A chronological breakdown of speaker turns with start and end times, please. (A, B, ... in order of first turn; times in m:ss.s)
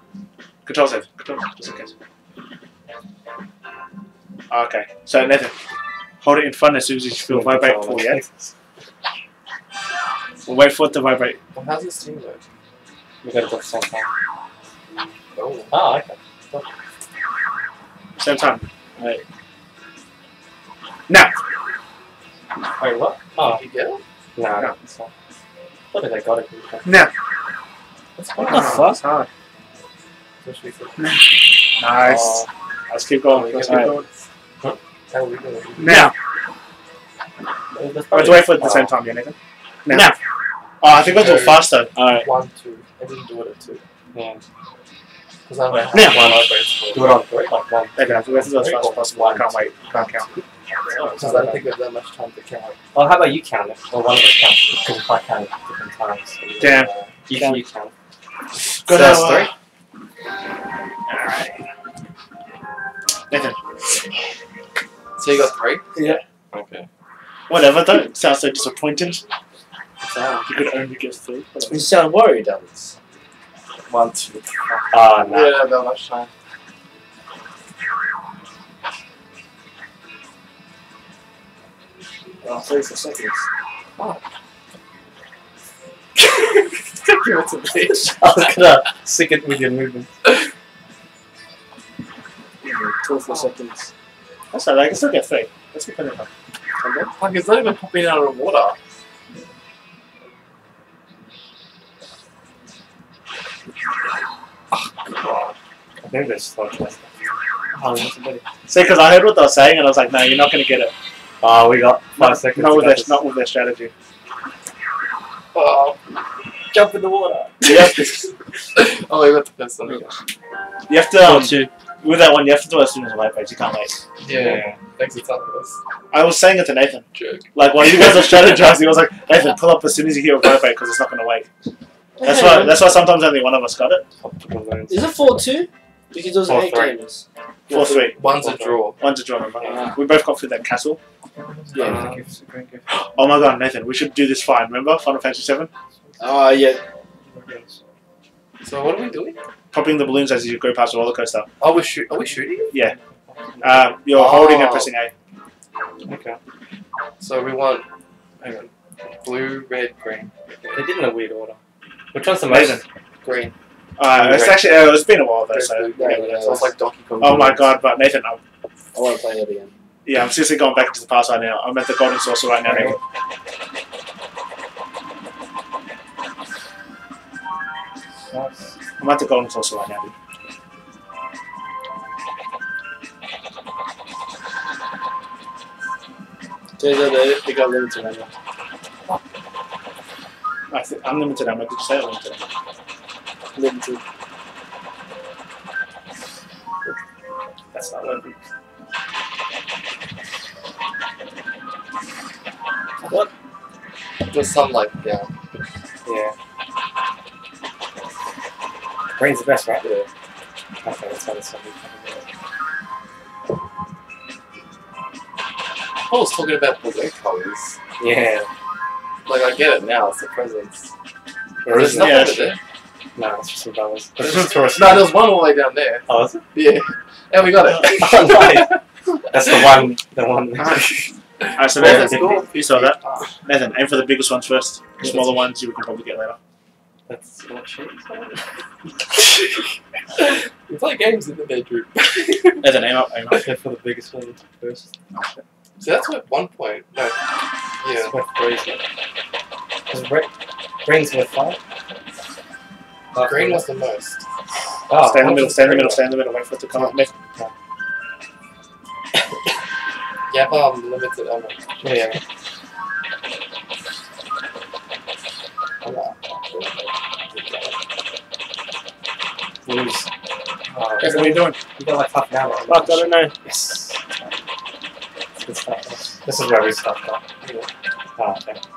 0:00.6-0:01.9 A
0:04.5-0:05.5 A
0:06.2-0:08.2 A
0:07.2-0:08.5 B
0:10.4-0:11.4 A
0:11.5-0:12.4 C
0:13.2-0:14.1 B
0:15.4-0:15.8 C
0:15.7-0:16.6 B
0:18.2-0:18.7 A
0:19.0-0:19.2 D
0:22.8-0:23.6 B
0:23.5-0:24.0 C
0:24.4-0:25.1 B
0:25.9-0:27.1 B
0:26.8-0:27.1 A
0:28.2-0:28.9 C
0:28.4-0:28.9 B
0:28.5-0:29.0 D
0:28.5-0:29.3 A
0:30.4-0:31.2 C
0:31.0-0:34.1 A
0:32.1-0:32.4 B
0:33.3-0:34.0 C
0:33.6-0:34.0 D
0:35.1-0:36.1 C
0:35.8-0:36.1 A
0:37.7-0:39.0 B
0:38.1-0:40.2 A
0:40.8-0:42.0 A
0:40.9-0:43.8 C
0:42.0-0:42.3 D
0:44.1-0:44.4 B
0:45.5-0:47.2 C
0:45.7-0:46.3 A
0:45.9-0:49.7 B
0:48.0-0:50.3 A
0:49.9-0:50.4 C
0:50.9-0:51.6 B
0:51.0-0:51.5 A
0:51.2-0:52.8 C
0:52.9-0:56.7 B
0:56.4-0:57.2 C
0:56.6-0:56.9 A
0:57.3-0:57.9 B
0:57.3-0:57.6 D
0:58.8-0:59.5 A
0:58.9-0:59.5 B
1:01.1-1:01.6 A
1:03.3-1:03.6 A
1:05.2-1:05.9 C
1:06.0-1:06.2 D
1:06.5-1:06.9 C
1:07.5-1:09.2 A
1:10.4-1:11.9 A
1:11.7-1:13.0 D
1:13.9-1:16.3 C
1:14.9-1:15.7 B
1:22.4-1:22.9 A
1:22.6-1:23.4 D
1:24.0-1:24.2 C
1:26.2-1:28.5 C
1:27.8-1:30.1 B
1:32.6-1:33.9 D
1:33.3-1:33.5 C
1:34.5-1:36.3 A
1:37.1-1:38.8 C
1:44.7-1:45.5 C
1:46.0-1:47.1 B
1:47.8-1:48.5 B
1:48.7-1:50.9 A
1:51.4-1:53.2 B
1:52.2-1:53.9 A
1:55.5-1:56.0 C
1:56.7-1:57.7 B
1:57.6-1:58.3 A
1:58.8-2:00.1 C
2:00.9-2:04.0 A
2:01.2-2:01.7 D
2:04.2-2:05.8 C
2:04.3-2:04.8 B
2:06.1-2:11.5 A
2:07.1-2:07.5 C
2:12.2-2:12.9 D
2:12.2-2:14.0 A
2:14.2-2:15.2 B
2:14.9-2:18.2 D
2:16.4-2:17.0 B
2:17.7-2:18.2 A
2:18.0-2:19.0 C
2:18.3-2:18.9 B
2:19.0-2:21.0 A
2:19.6-2:20.0 D
2:21.4-2:22.3 C
2:21.7-2:22.8 D
2:21.7-2:22.3 B
2:22.9-2:25.7 A
2:26.2-2:26.8 D
2:27.2-2:27.8 B
2:28.6-2:29.4 C
2:29.7-2:31.5 A
2:31.6-2:32.7 C
2:32.7-2:33.0 A
2:32.7-2:34.0 B
2:33.6-2:35.1 A
2:34.1-2:35.0 C
2:36.0-2:36.4 B
2:37.2-2:37.9 C
2:38.4-2:40.9 C
2:40.7-2:41.6 B
2:42.1-2:42.8 B
2:42.5-2:42.8 A
2:43.2-2:43.6 C
2:44.0-2:45.9 A
2:44.1-2:45.0 B
2:45.5-2:47.8 C
2:45.9-2:46.8 D
2:47.2-2:48.4 A
2:48.9-2:49.7 D
2:50.0-2:53.0 A
2:52.7-2:53.0 B
2:58.3-2:58.7 B
2:59.0-3:00.1 A
3:06.8-3:08.3 D
3:10.7-3:12.5 A
3:13.6-3:14.0 D
3:17.7-3:18.4 B
3:23.0-3:23.3 B
3:24.3-3:25.3 C
3:26.0-3:26.3 B
3:29.2-3:29.9 B
3:29.8-3:30.1 D
3:30.8-3:32.3 B
3:36.0-3:37.8 C
3:38.0-3:38.5 B
3:39.3-3:40.9 C
3:41.6-3:42.5 B
3:41.7-3:42.6 C
3:42.0-3:42.6 A
3:43.2-3:45.3 B
3:44.2-3:48.8 C
3:46.1-3:46.4 B
3:47.6-3:51.1 B
3:49.4-3:49.8 C
3:50.6-3:50.9 A
3:51.4-3:53.4 C
3:51.6-3:56.4 A
3:51.6-3:52.5 B
3:57.1-3:58.4 B
3:59.2-3:59.4 C
4:00.2-4:02.9 C
4:02.6-4:03.5 A
4:03.3-4:04.9 B
4:05.1-4:05.4 A
4:05.8-4:07.2 C
4:07.8-4:08.2 C
4:08.0-4:08.8 B
4:09.9-4:10.3 B
4:10.8-4:11.6 B
4:13.1-4:14.2 C
4:13.2-4:13.7 B
4:14.9-4:17.5 B
4:15.0-4:17.1 A
4:20.3-4:22.2 C
4:21.8-4:22.2 B
4:25.8-4:27.8 C
4:29.7-4:30.1 B
4:30.7-4:34.0 B
4:31.0-4:31.6 A
4:32.7-4:33.3 D
4:35.4-4:37.2 B
4:37.4-4:37.7 C
4:38.2-4:38.6 B